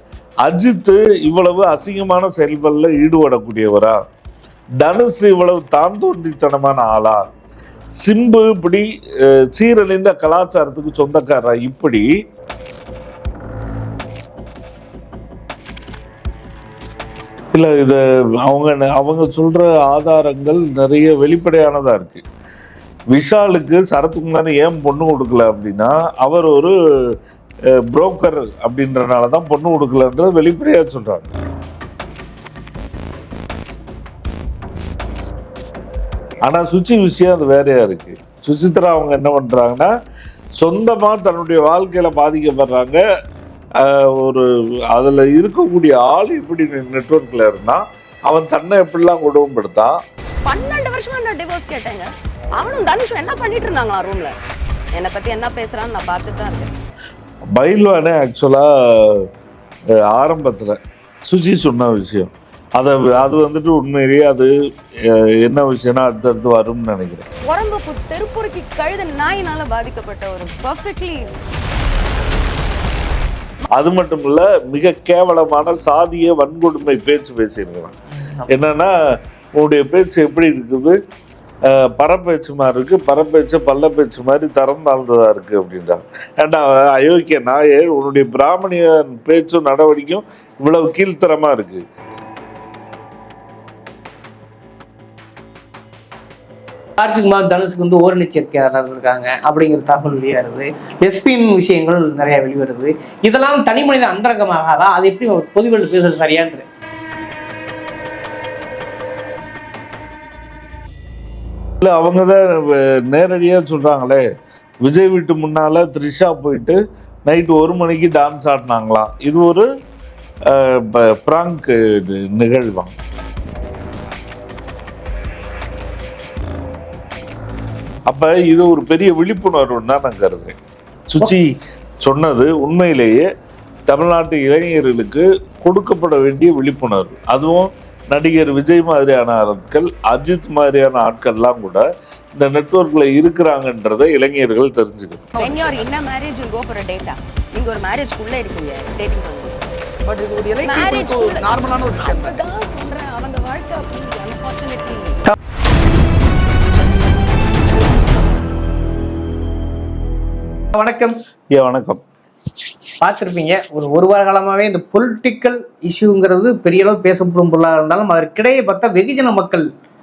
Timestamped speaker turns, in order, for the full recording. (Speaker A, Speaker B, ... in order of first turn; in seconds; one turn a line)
Speaker A: 0.4-4.0
Speaker A: 4.8-7.2
Speaker A: 8.0-12.1
Speaker A: 17.5-22.2
Speaker A: 23.1-26.7
Speaker A: 27.9-31.3
Speaker A: 36.5-39.9
Speaker A: 40.6-43.0
Speaker A: 43.8-50.0
Speaker B: 50.4-54.3
Speaker B: 54.9-56.7
Speaker A: 57.5-59.2
Speaker A: 60.1-64.5
Speaker A: 65.0-67.2
Speaker B: 67.4-71.3
Speaker A: 73.8-77.9
Speaker C: 78.1-78.5
Speaker A: 78.5-78.9
Speaker A: 79.6-81.0
Speaker A: 81.7-91.8
Speaker C: 97.0-106.7
Speaker A: 111.8-114.2
Speaker A: 114.8-119.7
Speaker A: 120.5-122.9
Speaker A: 128.1-130.6
Speaker A: 131.1-131.5
Speaker A: 132.0-133.3
Speaker A: 133.9-141.8
Speaker A: 142.3-145.3
Speaker D: 145.3-145.9
Speaker B: 145.4-149.7
Speaker D: 150.0-152.4
Speaker B: 150.6-155.2
Speaker C: 160.7-161.2
Speaker A: 161.5-162.0
Speaker C: 163.0-169.7